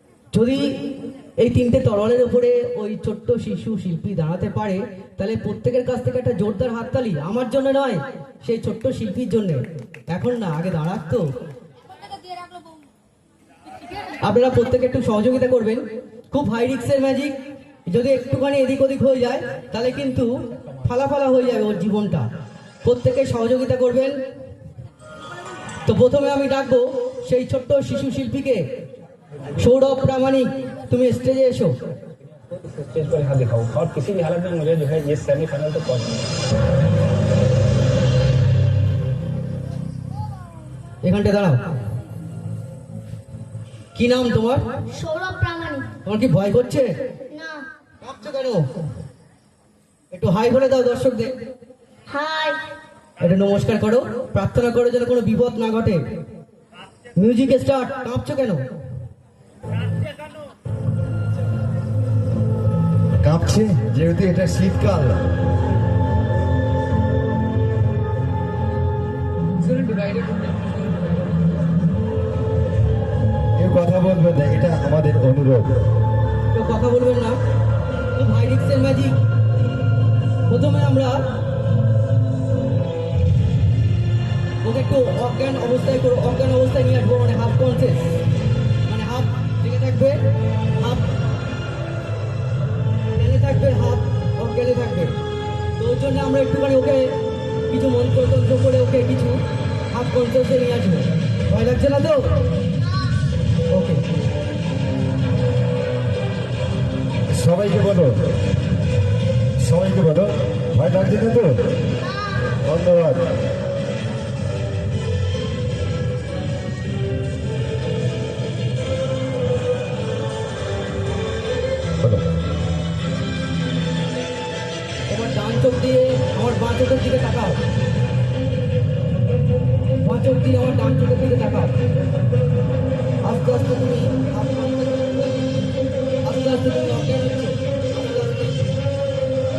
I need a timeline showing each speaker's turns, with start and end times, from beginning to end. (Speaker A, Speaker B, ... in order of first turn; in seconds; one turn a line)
Speaker A: 0.3-11.3
Speaker A: 14.2-17.4
Speaker A: 17.9-22.3
Speaker A: 22.8-24.2
Speaker A: 25.9-28.7
Speaker A: 29.6-31.8
Speaker B: 32.5-36.3
Speaker A: 41.0-41.6
Speaker A: 43.9-44.7
Speaker C: 44.9-45.9
Speaker A: 46.0-46.9
Speaker C: 47.3-47.7
Speaker A: 48.0-48.7
Speaker A: 50.1-51.3
Speaker C: 52.1-52.6
Speaker A: 53.2-56.0
Speaker A: 57.2-58.6
Speaker D: 63.2-65.3
Speaker B: 69.8-70.8
Speaker D: 73.6-75.8
Speaker A: 76.5-77.4
Speaker A: 78.2-79.2
Speaker A: 80.5-81.3
Speaker A: 84.6-88.2
Speaker A: 88.8-91.1
Speaker A: 93.1-95.2
Speaker A: 95.8-102.4
Speaker A: 103.7-104.0
Speaker D: 107.3-108.4
Speaker D: 109.6-111.9
Speaker C: 112.0-112.6
Speaker D: 112.6-113.3
Speaker A: 125.1-127.6
Speaker A: 130.0-131.8
Speaker A: 133.2-135.5
Speaker A: 136.2-138.6